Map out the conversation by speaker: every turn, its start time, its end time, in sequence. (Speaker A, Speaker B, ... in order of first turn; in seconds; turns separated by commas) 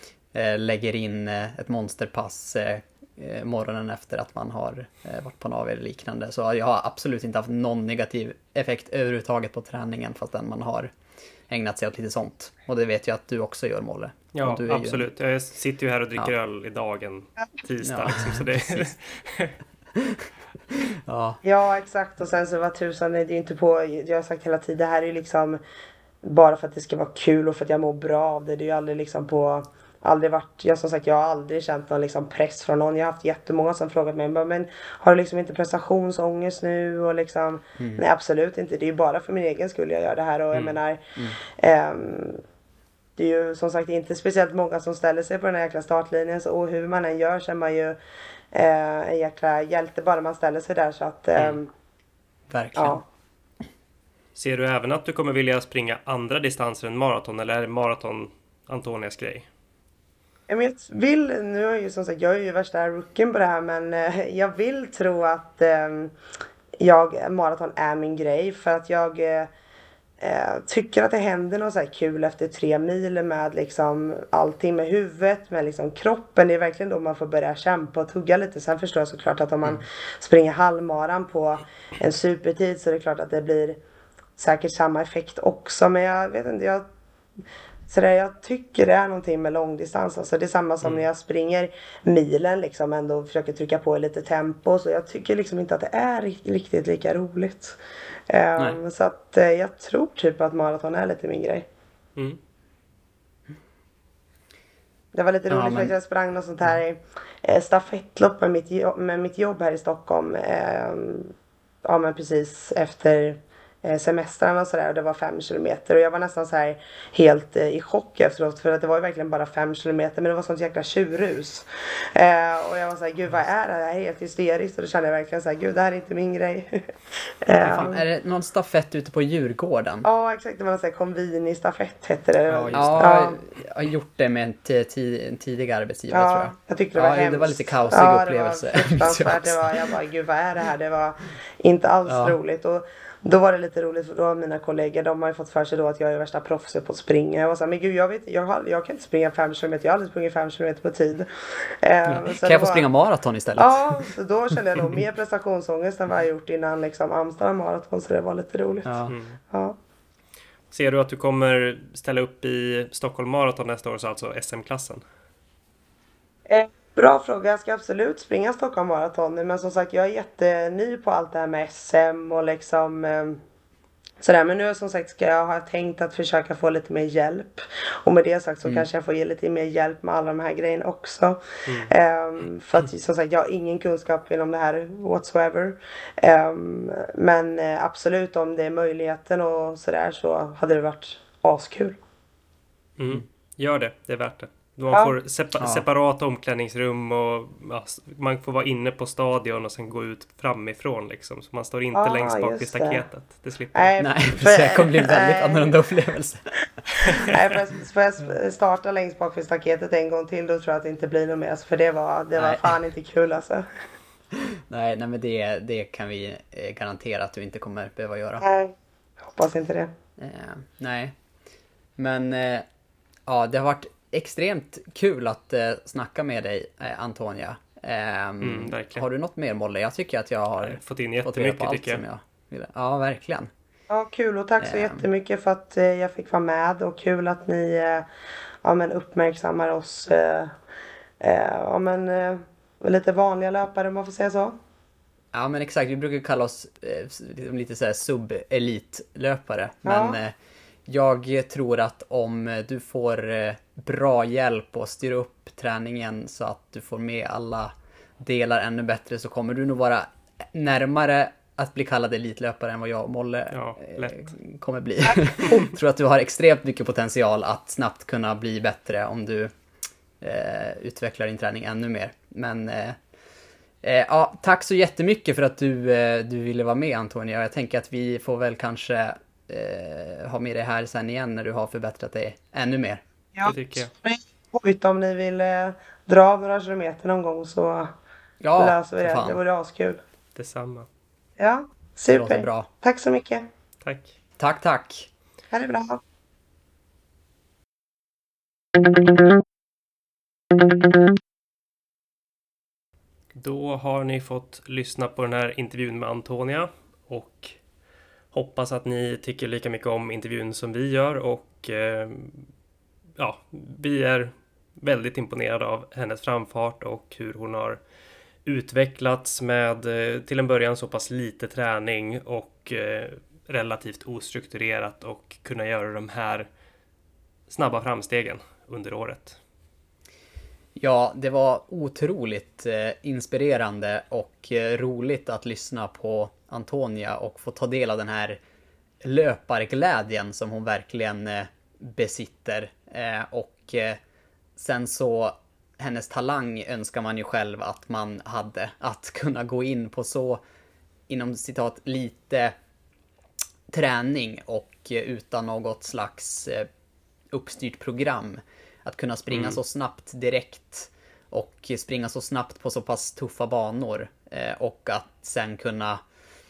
Speaker A: 0.3-10.9, Speaker A: 11.5-15.1, Speaker B: 14.3-19.6, Speaker A: 17.8-18.9, Speaker A: 19.9-21.4, Speaker C: 21.4-25.6, Speaker C: 26.2-41.0, Speaker A: 37.8-38.0, Speaker B: 40.5-40.8, Speaker C: 41.6-42.4, Speaker C: 43.2-48.0, Speaker C: 48.5-51.7, Speaker A: 52.5-53.0, Speaker C: 52.8-53.0, Speaker B: 54.3-59.5, Speaker C: 60.5-66.1, Speaker C: 66.8-69.5, Speaker C: 70.2-83.8, Speaker C: 84.4-86.8, Speaker C: 87.9-97.8, Speaker C: 98.3-101.7, Speaker C: 105.1-111.3, Speaker A: 105.5-105.9, Speaker C: 111.8-126.9, Speaker C: 127.4-128.0, Speaker A: 127.6-130.1, Speaker C: 130.0-133.4, Speaker A: 132.5-139.9, Speaker B: 132.6-133.0, Speaker C: 136.1-152.8, Speaker A: 142.1-142.4, Speaker A: 152.1-154.1, Speaker C: 153.6-159.0, Speaker A: 158.8-159.1, Speaker B: 159.1-159.4, Speaker C: 159.5-159.8, Speaker B: 160.7-165.0, Speaker C: 166.5-173.4, Speaker C: 174.2-192.0, Speaker B: 193.0-203.9, Speaker A: 195.6-195.8, Speaker C: 201.9-203.1, Speaker C: 203.7-205.8, Speaker A: 204.0-206.9, Speaker C: 207.0-213.7, Speaker A: 212.3-212.8, Speaker A: 214.3-218.4, Speaker C: 218.4-219.9, Speaker A: 220.2-221.1, Speaker A: 222.0-222.7, Speaker A: 223.3-233.5, Speaker B: 228.4-229.1, Speaker B: 230.6-232.0, Speaker C: 233.9-238.1, Speaker A: 234.6-235.0, Speaker C: 238.6-240.5, Speaker C: 241.2-244.6, Speaker A: 245.3-250.3, Speaker C: 249.8-250.2, Speaker A: 250.9-269.5, Speaker B: 263.5-264.3, Speaker B: 265.4-265.7, Speaker A: 270.2-273.0, Speaker A: 273.8-283.0, Speaker C: 283.3-287.9, Speaker B: 283.4-283.9, Speaker A: 288.4-289.4, Speaker C: 288.6-290.0, Speaker B: 290.3-290.9, Speaker C: 291.4-293.5, Speaker A: 292.1-292.7, Speaker B: 293.8-294.1, Speaker A: 294.4-295.1, Speaker C: 295.5-296.0, Speaker B: 303.3-307.6, Speaker B: 308.3-312.4, Speaker B: 313.2-317.8, Speaker B: 318.4-326.5, Speaker B: 327.5-329.4, Speaker A: 330.7-338.4, Speaker A: 339.0-344.0, Speaker A: 344.6-350.4, Speaker A: 351.1-352.5, Speaker A: 353.7-356.7, Speaker A: 357.3-366.0, Speaker B: 359.3-359.6